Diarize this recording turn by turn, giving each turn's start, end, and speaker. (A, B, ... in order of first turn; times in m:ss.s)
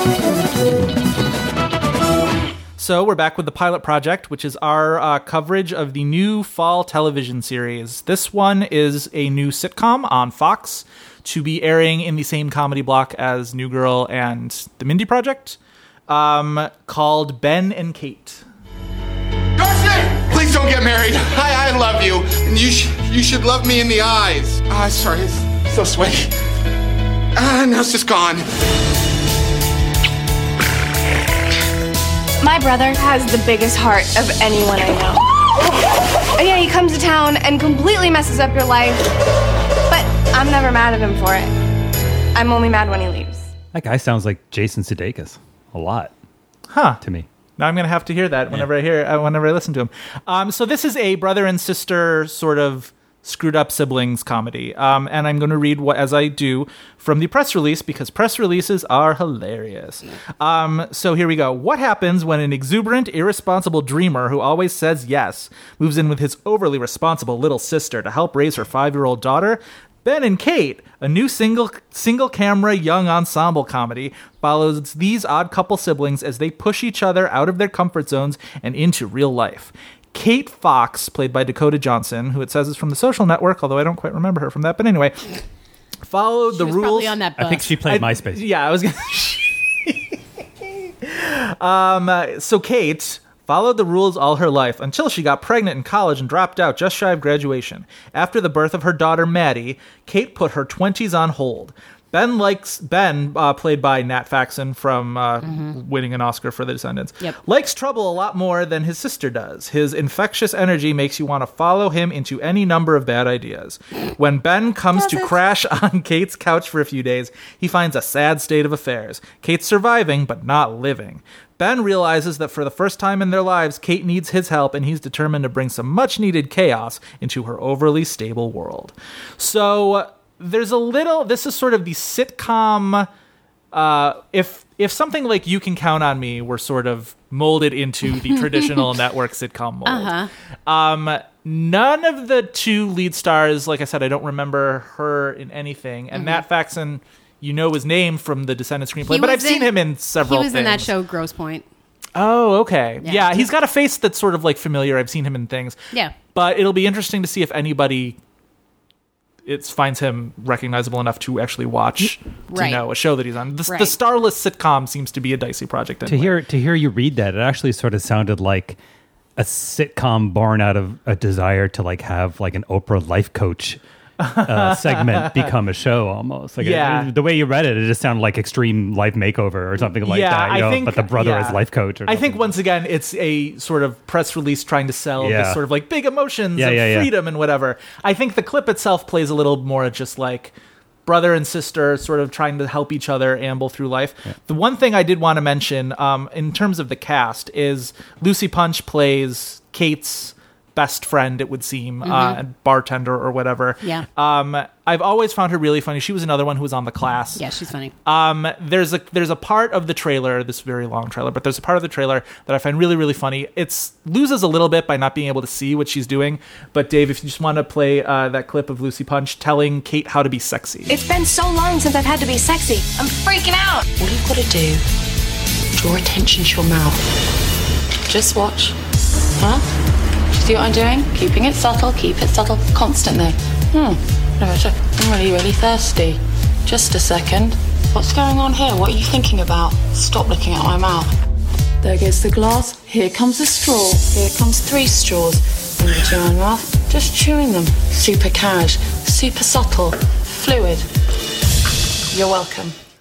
0:02.8-0:18.4 A
0:19.6-0:26.3 B
0:27.4-0:28.5 B
0:32.4-0:35.3 C
0:36.3-0:39.1 C
0:39.9-0:41.5 C
0:42.3-0:43.5 C
0:43.7-0:46.1 D
0:46.7-0:47.0 A
0:47.0-0:47.3 D
0:47.6-1:25.3 A
1:26.1-1:27.2 A
1:26.5-1:27.7 E
1:27.4-1:28.4 D
1:27.8-2:13.1 A
1:55.0-1:55.3 E
2:13.7-2:20.2 A
2:19.8-2:20.3 E
2:20.7-2:30.9 A
2:26.1-2:26.4 E
2:29.0-2:31.6 E
2:32.1-2:35.8 A
2:33.0-2:33.5 E
2:36.3-2:38.2 A
2:39.4-2:46.4 A
2:42.5-2:42.9 E
2:43.7-2:43.9 E
2:46.0-2:48.8 D
2:49.4-2:53.8 D
2:54.2-2:55.5 A
2:54.4-3:02.5 D
2:56.6-2:57.1 A
3:00.0-3:10.5 A
3:05.2-3:05.6 D
3:06.6-3:07.1 D
3:11.0-3:27.4 A
3:22.0-3:22.4 E
3:27.4-3:27.9 E
3:28.0-3:40.9 A
3:40.9-3:43.7 C
3:43.9-3:44.8 F
3:45.8-3:47.0 F
3:48.1-3:48.8 F
3:49.4-3:49.6 F
3:50.3-4:01.1 F
4:01.8-4:10.9 F
4:12.1-4:12.8 F